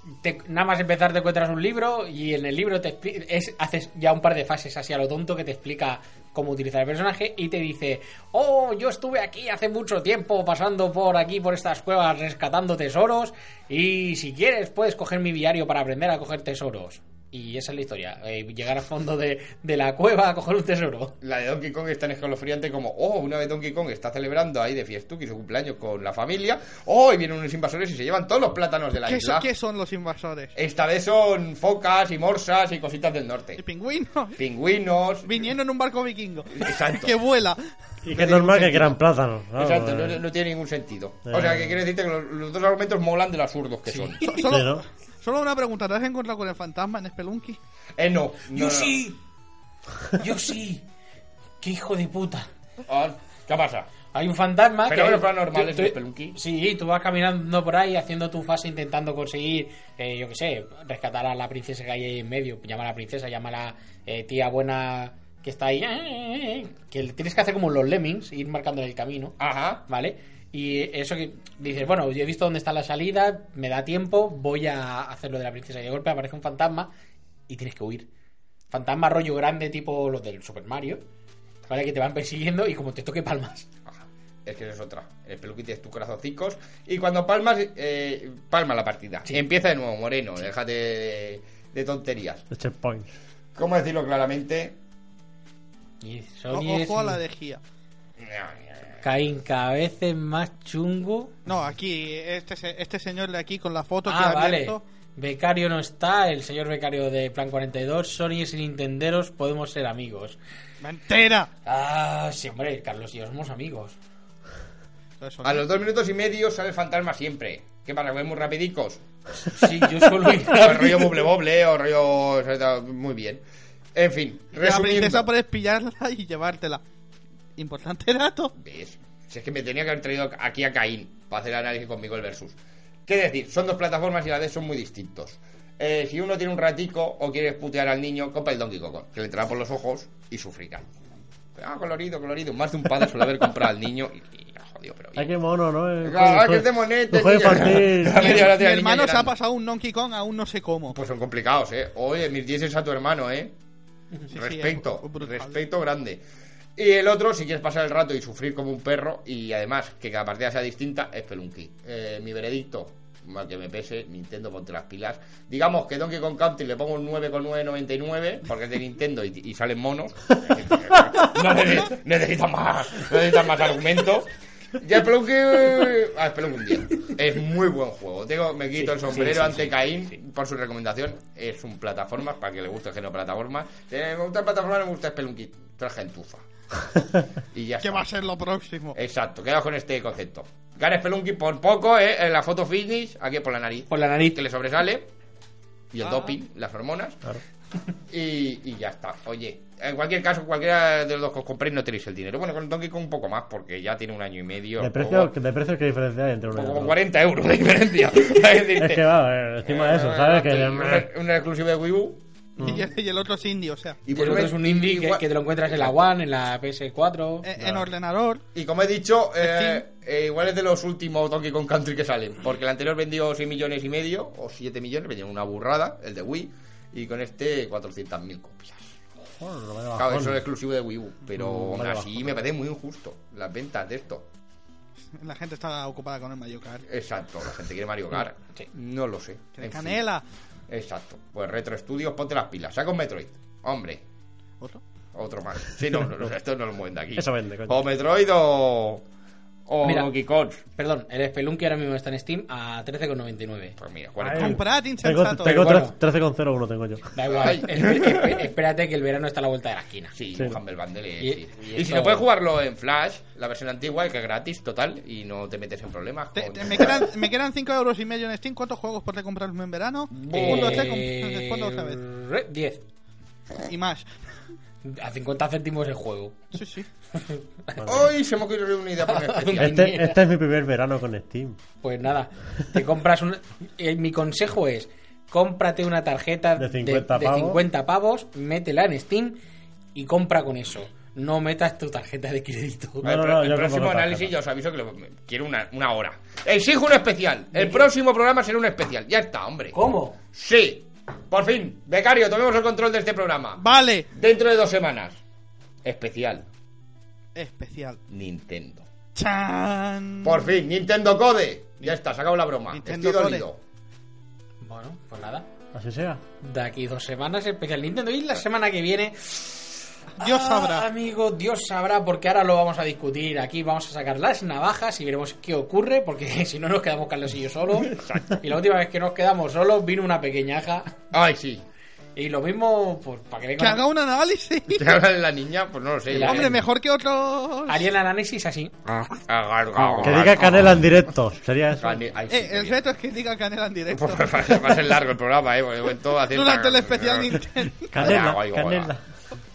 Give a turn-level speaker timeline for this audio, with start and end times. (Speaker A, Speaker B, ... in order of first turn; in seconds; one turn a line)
Speaker A: 0.2-21.1
Speaker B: 21.2-29.5
Speaker C: 29.0-30.5
Speaker B: 30.6-33.6
Speaker C: 33.6-34.3
Speaker B: 34.4-35.5
Speaker C: 35.2-37.6
Speaker B: 36.6-37.1
Speaker D: 38.0-40.2
Speaker B: 38.1-38.9
Speaker B: 39.6-44.3
Speaker D: 41.3-41.8
Speaker A: 43.9-44.4
Speaker C: 44.2-47.6
Speaker D: 44.5-44.8
Speaker B: 48.0-49.0
Speaker A: 48.5-49.2
Speaker A: 50.2-50.8
Speaker A: 51.6-52.5
Speaker B: 52.9-53.9
Speaker A: 54.1-76.9
Speaker B: 54.9-56.4
Speaker B: 69.4-69.8
Speaker A: 77.5-78.1
Speaker A: 78.7-81.0
Speaker A: 81.7-83.7
Speaker B: 83.9-92.4
Speaker D: 92.5-93.1
Speaker B: 93.5-94.8
Speaker A: 96.0-97.2
Speaker C: 96.5-97.6
Speaker B: 98.2-99.0
Speaker A: 99.0-101.3
Speaker C: 101.5-104.8
Speaker A: 104.0-110.4
Speaker C: 110.8-111.5
Speaker A: 111.7-114.0
Speaker C: 115.2-115.6
Speaker B: 115.4-119.0
Speaker A: 119.5-121.0
Speaker B: 120.5-123.4
Speaker B: 123.9-125.3
Speaker C: 124.6-126.8
Speaker C: 127.6-128.5
Speaker B: 128.6-140.9
Speaker B: 141.6-145.3
Speaker D: 145.2-148.4
Speaker B: 146.0-149.3
Speaker C: 148.2-150.9
Speaker B: 150.9-153.5
Speaker C: 154.3-155.6
Speaker B: 154.3-156.2
Speaker B: 156.8-186.4
Speaker A: 178.8-180.2
Speaker B: 187.5-188.1
Speaker C: 187.8-188.9
Speaker B: 188.9-195.1
Speaker A: 193.9-194.4
Speaker B: 195.9-197.2
Speaker B: 198.1-205.3
Speaker D: 204.8-206.9
Speaker B: 206.5-209.0
Speaker D: 208.8-211.1
Speaker B: 209.6-212.2
Speaker D: 212.6-212.8
Speaker C: 212.6-214.0
Speaker B: 214.1-215.9
Speaker A: 214.1-217.5
Speaker C: 217.4-218.4
Speaker D: 217.6-217.8
Speaker B: 218.5-228.9
Speaker C: 219.4-219.8
Speaker D: 229.4-230.4
Speaker B: 229.9-234.2
Speaker D: 231.3-232.4
Speaker C: 235.1-236.8
Speaker B: 236.9-240.0
Speaker C: 239.6-240.2
Speaker B: 240.7-244.0
Speaker B: 245.1-249.0
Speaker D: 247.2-247.8
Speaker B: 249.7-250.6
Speaker A: 249.8-250.1
Speaker A: 250.8-253.8
Speaker B: 253.8-254.6
Speaker D: 254.2-257.0
Speaker C: 254.3-255.8
Speaker A: 255.4-255.9
Speaker A: 257.1-260.1
Speaker B: 257.3-258.4
Speaker B: 260.1-267.1
Speaker A: 261.2-262.2
Speaker C: 266.4-272.0
Speaker B: 270.1-270.9
Speaker A: 270.3-272.8
Speaker C: 273.7-274.1
Speaker A: 274.8-276.4
Speaker C: 276.5-276.9
Speaker A: 277.1-277.8
Speaker D: 277.8-278.1
Speaker B: 277.8-279.7
Speaker A: 279.1-280.2
Speaker D: 279.6-281.6
Speaker A: 281.8-289.4
Speaker D: 286.6-287.6
Speaker A: 289.9-293.1
Speaker D: 293.0-294.3
Speaker B: 293.0-299.8
Speaker A: 297.5-297.9
Speaker A: 299.7-300.2
Speaker B: 300.3-305.2
Speaker C: 303.6-304.1
Speaker B: 305.8-306.4
Speaker C: 307.3-308.0
Speaker B: 308.1-308.9
Speaker C: 309.1-310.4
Speaker B: 310.2-313.6
Speaker C: 312.7-313.4
Speaker A: 314.6-315.4
Speaker D: 315.7-316.2
Speaker A: 316.4-330.9
Speaker C: 320.2-320.9
Speaker B: 327.9-328.4
Speaker B: 331.1-331.6
Speaker A: 332.1-333.8
Speaker C: 333.6-334.8
Speaker B: 334.7-336.6
Speaker A: 336.1-336.5
Speaker C: 336.2-337.8
Speaker A: 337.7-339.2
Speaker B: 339.3-341.0
Speaker A: 339.7-340.4
Speaker D: 340.0-342.0
Speaker B: 341.8-342.8
Speaker C: 342.3-344.7
Speaker B: 343.9-348.9
Speaker C: 346.3-347.9
Speaker D: 347.9-349.0